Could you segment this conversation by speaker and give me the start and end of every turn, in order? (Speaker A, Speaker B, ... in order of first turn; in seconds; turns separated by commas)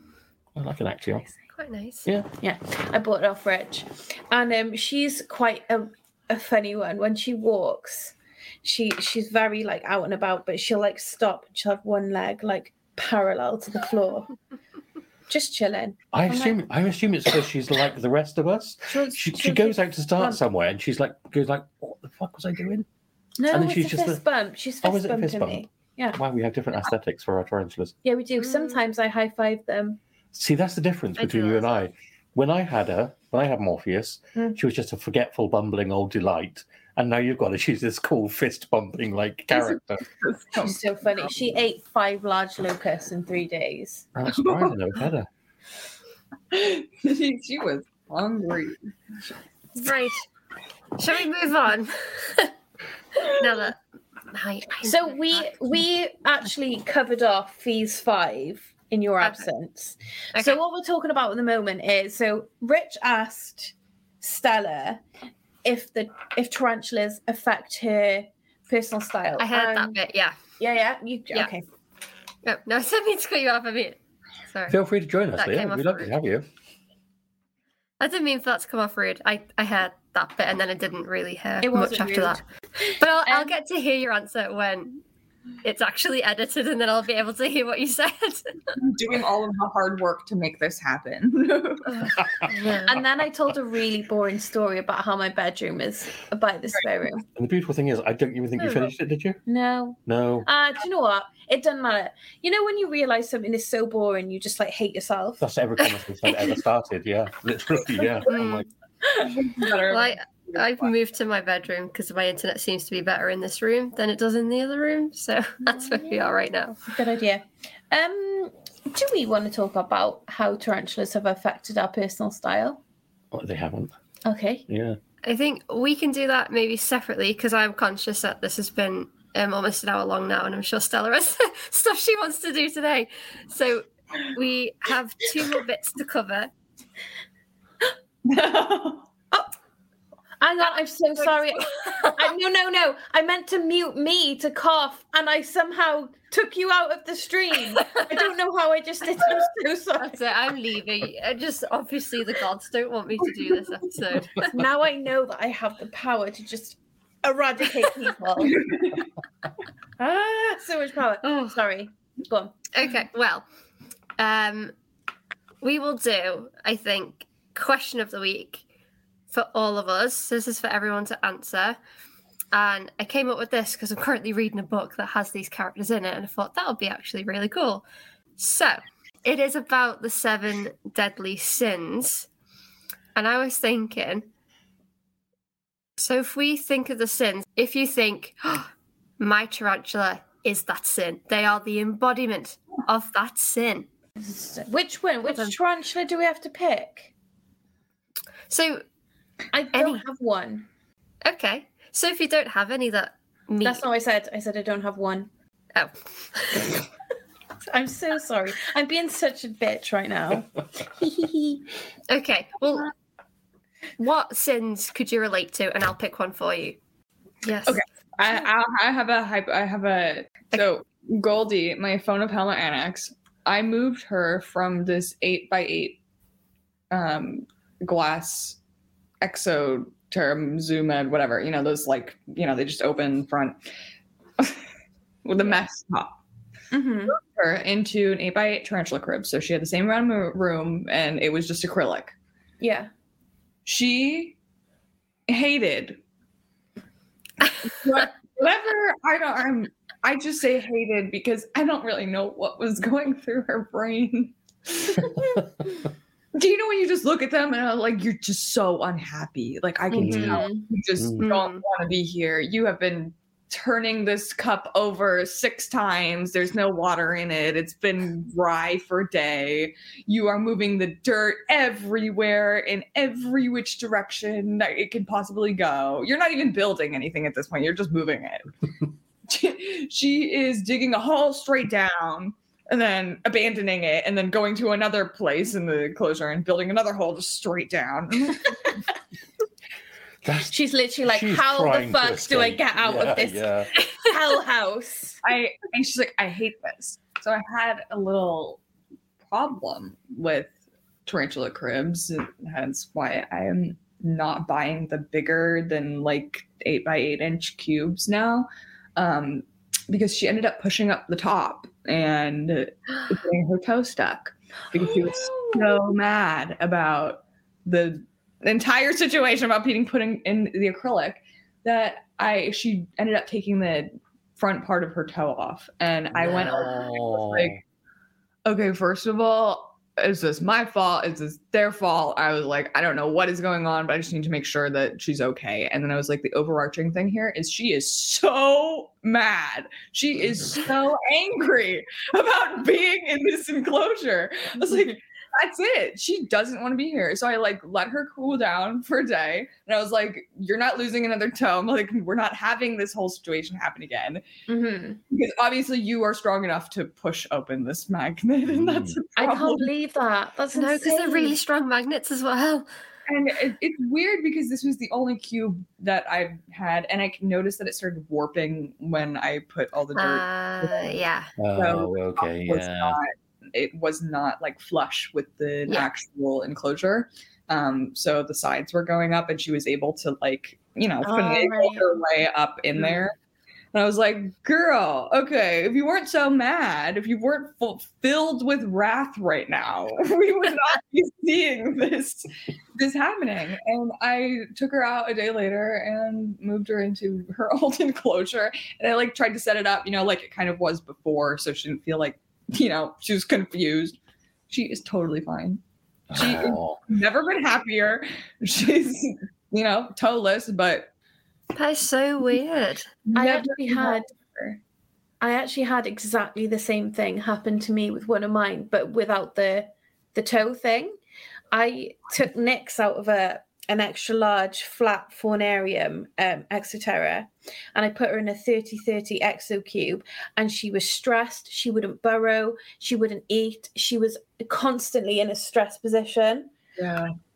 Speaker A: 0.6-1.3, Speaker B: 1.6-2.1, Speaker C: 2.4-14.3, Speaker C: 15.3-16.6, Speaker A: 16.1-22.9, Speaker C: 18.9-20.4, Speaker C: 23.4-26.2, Speaker A: 23.5-24.2, Speaker A: 24.8-28.0, Speaker C: 28.0-30.0, Speaker B: 28.4-28.8, Speaker A: 30.3-40.0, Speaker B: 31.2-31.7, Speaker D: 39.5-40.8, Speaker C: 40.6-44.1, Speaker A: 44.1-45.3, Speaker D: 44.3-44.7, Speaker D: 46.5-48.9, Speaker B: 49.8-50.2, Speaker B: 51.0-52.5, Speaker B: 53.2-53.8, Speaker B: 54.3-55.5, Speaker C: 54.8-65.0, Speaker B: 60.4-60.6, Speaker C: 65.6-70.0, Speaker B: 69.4-70.4, Speaker C: 70.6-71.6, Speaker B: 72.5-74.8, Speaker A: 74.7-76.5, Speaker B: 75.4-76.1, Speaker B: 78.0-85.0, Speaker C: 81.6-83.5, Speaker B: 85.6-88.7, Speaker D: 88.8-92.1, Speaker B: 91.9-93.0, Speaker C: 92.9-97.2, Speaker A: 97.3-99.4, Speaker B: 98.6-98.9, Speaker C: 99.5-105.5, Speaker A: 100.1-100.5, Speaker A: 105.4-108.7, Speaker B: 108.3-108.7, Speaker D: 109.2-110.9, Speaker B: 109.9-116.8, Speaker C: 115.7-122.8, Speaker A: 123.3-123.9, Speaker C: 124.2-124.7, Speaker A: 124.7-125.0, Speaker B: 125.2-136.5, Speaker D: 138.2-139.1, Speaker C: 140.4-150.2, Speaker B: 141.2-142.3, Speaker B: 147.8-148.2, Speaker B: 150.0-154.6, Speaker C: 154.5-158.6, Speaker D: 158.4-159.1, Speaker C: 160.0-162.6, Speaker B: 161.2-161.6, Speaker B: 162.7-163.5, Speaker B: 164.2-164.7, Speaker B: 165.6-168.6, Speaker B: 169.3-171.8, Speaker B: 172.5-177.8, Speaker B: 178.4-182.3, Speaker B: 183.2-184.3, Speaker B: 186.0-193.9, Speaker C: 194.2-197.1, Speaker B: 198.5-198.8, Speaker C: 199.5-200.7, Speaker B: 199.7-200.0, Speaker B: 201.2-203.8, Speaker C: 203.6-205.3, Speaker B: 205.8-206.8, Speaker C: 207.7-211.6, Speaker B: 212.1-212.9, Speaker B: 214.0-216.8, Speaker B: 217.4-217.8, Speaker D: 217.7-226.0, Speaker D: 226.9-228.6, Speaker D: 229.2-233.6, Speaker D: 234.4-234.7, Speaker D: 235.2-236.2, Speaker C: 236.7-237.2, Speaker D: 237.1-242.2, Speaker C: 242.6-242.9, Speaker D: 243.7-244.4, Speaker D: 245.3-246.0, Speaker D: 247.6-255.1, Speaker A: 255.2-255.4, Speaker D: 256.4-278.5, Speaker C: 259.9-260.7, Speaker A: 259.9-260.4, Speaker A: 261.0-261.2, Speaker B: 261.2-261.6, Speaker D: 279.3-288.7, Speaker A: 290.2-290.5, Speaker C: 290.5-295.2, Speaker A: 291.1-293.7, Speaker D: 295.2-298.6, Speaker D: 299.3-300.5, Speaker D: 301.1-327.6, Speaker C: 314.8-315.8, Speaker A: 326.1-327.6, Speaker D: 328.4-354.2, Speaker C: 354.5-355.0, Speaker D: 355.1-359.7, Speaker A: 358.5-359.0, Speaker C: 359.2-361.4, Speaker B: 360.6-362.7, Speaker D: 363.1-371.0, Speaker B: 369.9-371.4, Speaker A: 371.4-373.0, Speaker D: 371.5-383.1, Speaker C: 381.0-382.0, Speaker D: 383.7-404.0, Speaker D: 404.5-405.6, Speaker A: 406.1-406.8, Speaker D: 406.1-410.9, Speaker B: 411.5-412.9, Speaker D: 413.1-414.6, Speaker C: 413.1-414.1, Speaker C: 415.2-421.0, Speaker C: 421.5-436.5, Speaker D: 436.8-437.1